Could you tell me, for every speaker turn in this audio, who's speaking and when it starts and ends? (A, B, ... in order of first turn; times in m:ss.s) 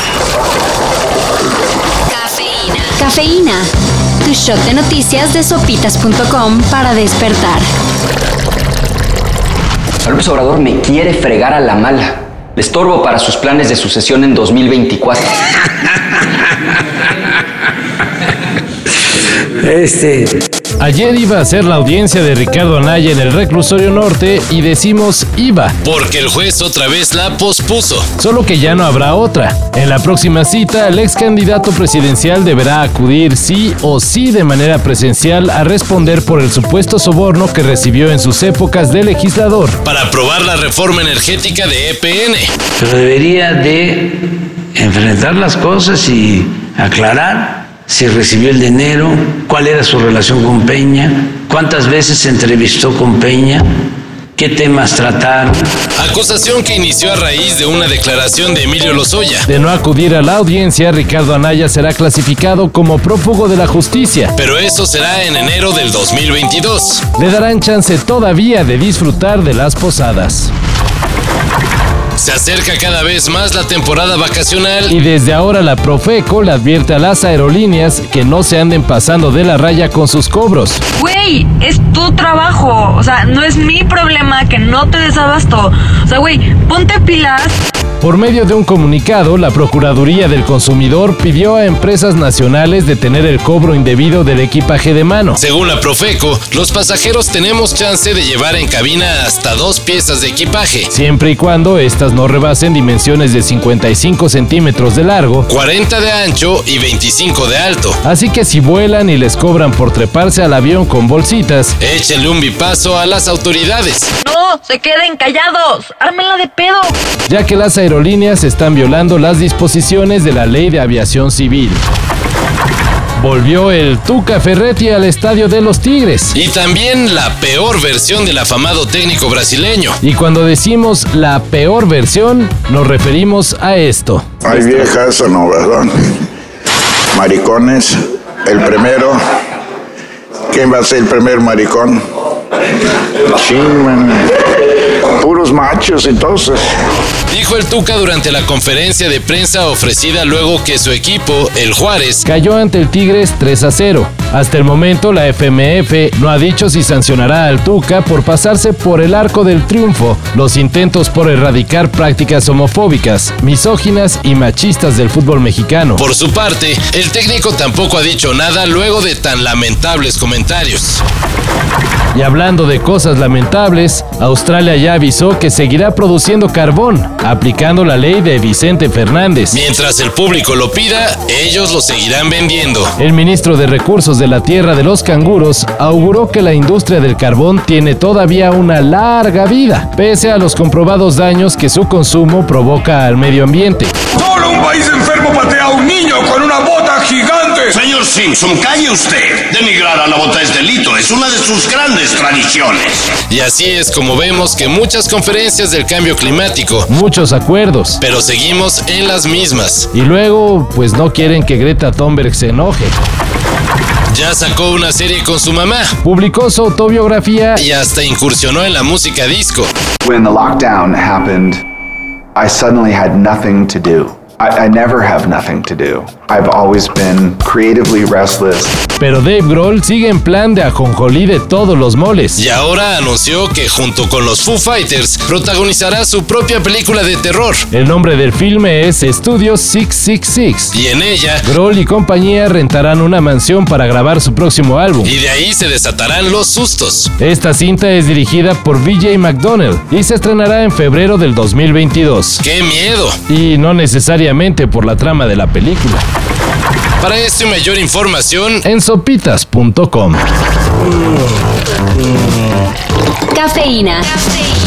0:02.9-0:03.7 A
0:04.2-0:07.6 A
0:10.1-0:15.2 B
0:19.7-0:20.2 C
0:20.8-0:25.9 D
0:25.9-0:28.1 E
0:28.1-0:39.9 D
0:39.9-0:42.5 E
0:42.8-0:44.0 C
0:44.8-0:53.6 C
0:54.4-0:55.6 C
0:56.0-0:59.4 E
0:59.5-1:04.3 D
1:04.4-1:07.1 E
1:07.1-1:10.5 D
1:12.2-1:14.8 E
1:14.9-1:20.8 D
1:21.0-1:27.6 F
1:28.0-1:35.4 D
1:35.4-1:40.8 E
1:40.9-1:45.5 D
1:45.5-1:48.0 E
1:48.0-1:51.8 D
1:51.9-1:54.1 E
1:54.2-1:56.9 F
1:57.3-2:01.8 D
2:03.2-2:06.4 D
2:06.4-2:09.9 E
2:10.0-2:14.8 D
2:14.5-2:15.9 G
2:17.1-2:17.9 G
2:18.4-2:19.2 G
2:20.5-2:22.0 G
2:23.4-2:24.1 G
2:25.1-2:26.6 G
2:27.3-2:32.2 E
2:27.6-2:28.3 D
2:32.2-2:46.0 D
2:46.0-2:51.0 E
2:52.1-2:59.6 D
2:59.5-3:02.9 E
3:03.0-3:13.9 D
3:14.1-3:17.8 H
3:17.7-3:23.1 I
3:23.3-3:26.8 E
3:26.8-3:28.0 D
3:28.0-3:29.9 E
3:29.9-3:32.9 D
3:34.1-3:36.0 E
3:36.0-3:37.6 D
3:37.6-3:39.7 E
3:40.0-3:41.6 J
3:42.3-3:48.7 J
3:49.0-3:52.4 D
3:52.4-3:57.6 E
3:57.7-4:00.8 D
4:00.8-4:01.4 E
4:01.4-4:05.1 D
4:05.1-4:07.1 E
4:07.1-4:12.4 D
4:12.4-4:13.2 E
4:13.2-4:16.0 D
4:17.0-4:18.5 E
4:18.6-4:20.2 D
4:23.3-4:24.1 A